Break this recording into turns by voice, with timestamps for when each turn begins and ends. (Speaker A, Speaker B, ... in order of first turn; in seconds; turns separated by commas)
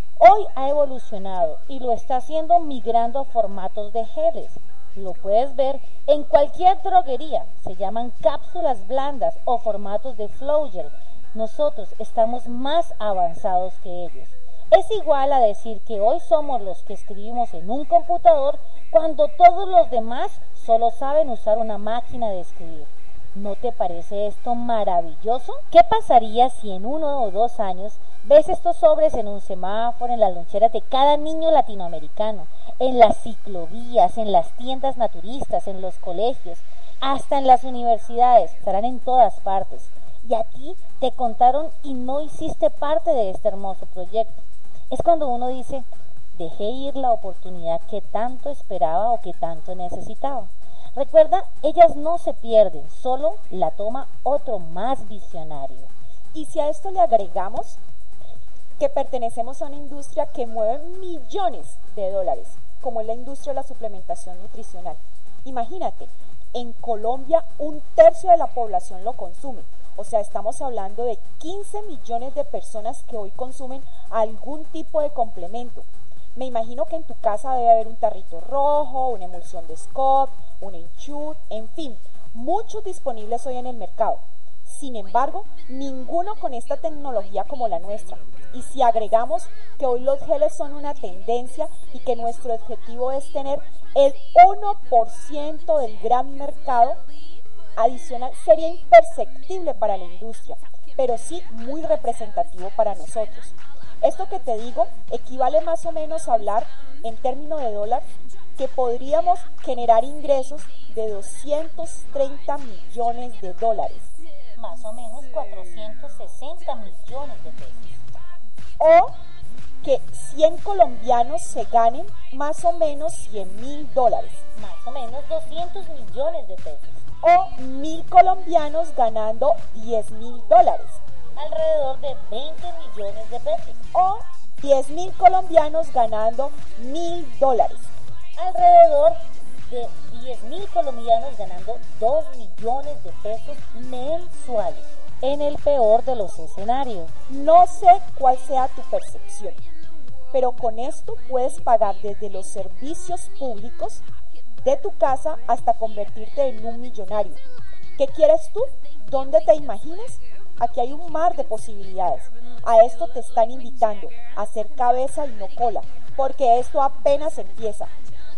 Speaker A: 0.2-55.9, Speaker B: 56.3-57.8, Speaker B: 58.8-97.0, Speaker B: 97.8-114.1, Speaker A: 114.6-118.0, Speaker B: 118.8-119.1, Speaker B: 119.8-124.4, Speaker A: 124.5-127.0, Speaker B: 127.2-131.0, Speaker A: 131.3-133.8, Speaker B: 133.9-137.9, Speaker A: 138.4-147.1, Speaker B: 147.3-149.6, Speaker B: 150.3-154.0, Speaker B: 154.6-157.4, Speaker B: 158.0-167.9